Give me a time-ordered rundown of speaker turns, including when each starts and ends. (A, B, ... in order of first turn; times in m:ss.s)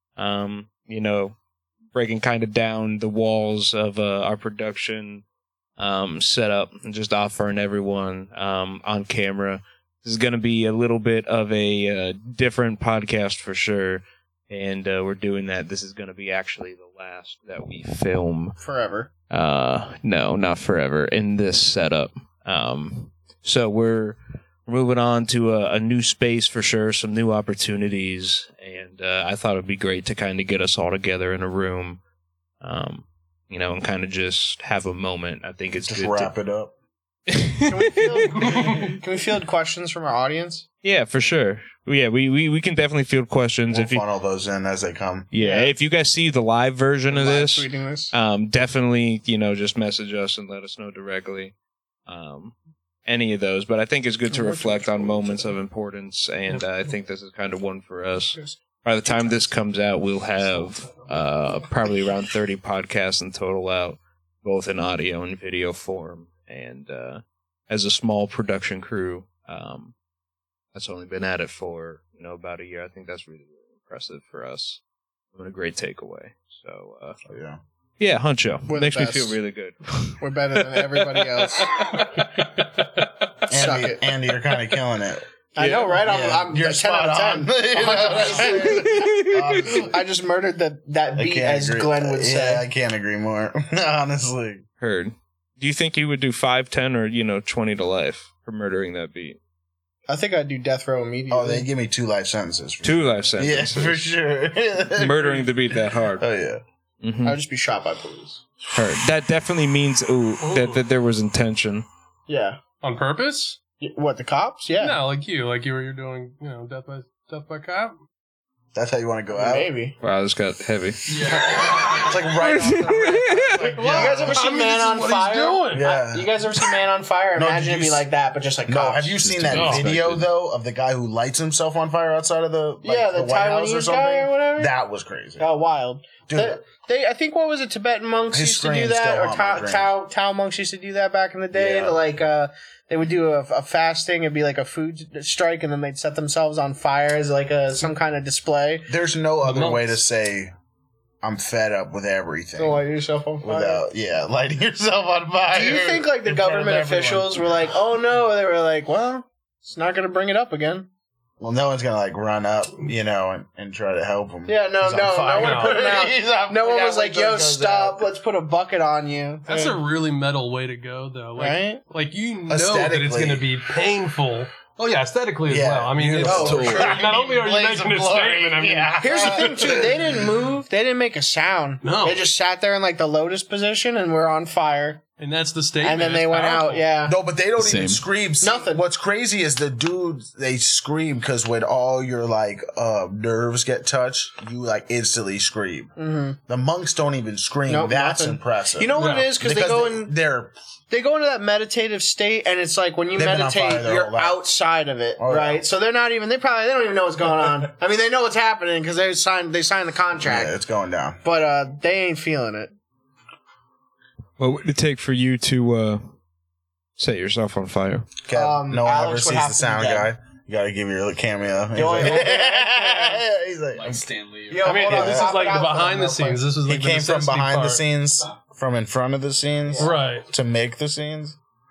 0:00.2-0:01.4 A
0:01.9-0:05.2 A
0:05.8-0:18.6 A
0:18.6-0:19.1 B
0:19.3-0:32.0 A
0:32.6-0:36.3 A
0:35.8-0:36.7 C
0:37.3-0:38.3 A
0:37.6-0:40.6 B
0:38.4-0:38.9 D
0:40.8-0:44.0 A
0:43.7-0:45.3 C
0:45.3-0:51.5 A
0:45.4-0:45.7 B
0:47.1-0:48.1 B
0:52.1-0:52.5 A
0:53.1-1:09.9 A
0:54.4-0:54.8 B
0:58.3-0:59.5 B
1:10.7-1:14.8 A
1:15.4-1:17.2 A
1:17.3-1:17.6 C
1:18.0-1:22.2 A
1:18.7-1:19.4 B
1:20.2-1:21.8 B
1:22.4-1:23.0 D
1:23.5-1:25.2 C
1:23.5-1:24.1 B
1:25.6-1:29.0 B
1:25.6-1:26.0 A
1:26.0-1:30.0 C
1:28.5-1:29.9 A
1:29.9-1:32.6 B
1:31.2-1:34.6 C
1:34.8-1:39.4 A
1:40.1-1:41.7 B
1:41.3-1:46.6 C
1:42.8-1:44.0 A
1:45.0-1:46.2 A
1:47.0-1:47.4 A
1:47.2-1:48.4 B
1:48.7-1:51.9 A
1:50.4-1:50.8 D
1:52.3-1:52.6 B
1:52.8-1:53.6 D
1:53.8-1:55.0 B
1:54.8-1:58.0 D
1:58.7-1:59.7 C
1:59.3-2:00.0 B
2:00.0-2:03.7 A
2:01.1-2:01.5 E
2:01.3-2:04.4 C
2:01.5-2:01.9 B
2:03.8-2:09.2 B
2:03.8-2:05.9 D
2:05.7-2:06.3 C
2:07.4-2:08.1 C
2:08.7-2:15.4 C
2:09.2-2:10.3 E
2:09.5-2:09.9 D
2:12.8-2:14.7 B
2:15.4-2:28.9 B
2:16.3-2:16.6 C
2:18.3-2:19.9 C
2:21.5-2:22.0 C
2:28.9-2:30.5 C
2:29.4-2:30.0 D
2:31.2-2:32.8 C
2:32.6-2:33.8 B
2:33.4-2:37.5 C
2:35.5-2:40.9 B
2:41.4-2:48.0 C
2:44.5-2:49.8 B
2:45.4-2:45.8 D
2:49.5-2:59.4 D
2:51.4-2:51.8 B
2:52.5-2:53.5 C
2:55.5-3:00.2 C
2:56.2-2:57.0 E
2:56.2-2:57.0 B
2:59.0-3:05.0 B
3:01.8-3:02.2 D
3:05.2-3:06.9 D
3:05.8-3:07.2 B
3:07.0-3:15.9 C
3:07.6-3:08.0 E
3:08.4-3:08.8 B
3:16.0-3:16.4 B
3:16.5-3:20.5 C
3:17.7-3:20.1 B
3:19.0-3:19.3 D
3:20.9-3:30.5 B
3:23.1-3:24.4 C
3:25.2-3:25.6 C
3:30.2-3:31.2 C
3:31.2-3:32.7 B
3:34.4-3:36.1 A
3:37.0-3:38.1 A
3:38.3-3:44.1 C
3:38.3-3:40.1 B
3:41.8-3:43.2 B
3:43.8-3:44.8 E
3:44.5-3:46.4 B
3:44.6-3:47.8 D
3:44.7-3:45.4 C
3:46.7-3:51.4 C
3:49.7-3:49.9 B
3:49.8-3:50.3 D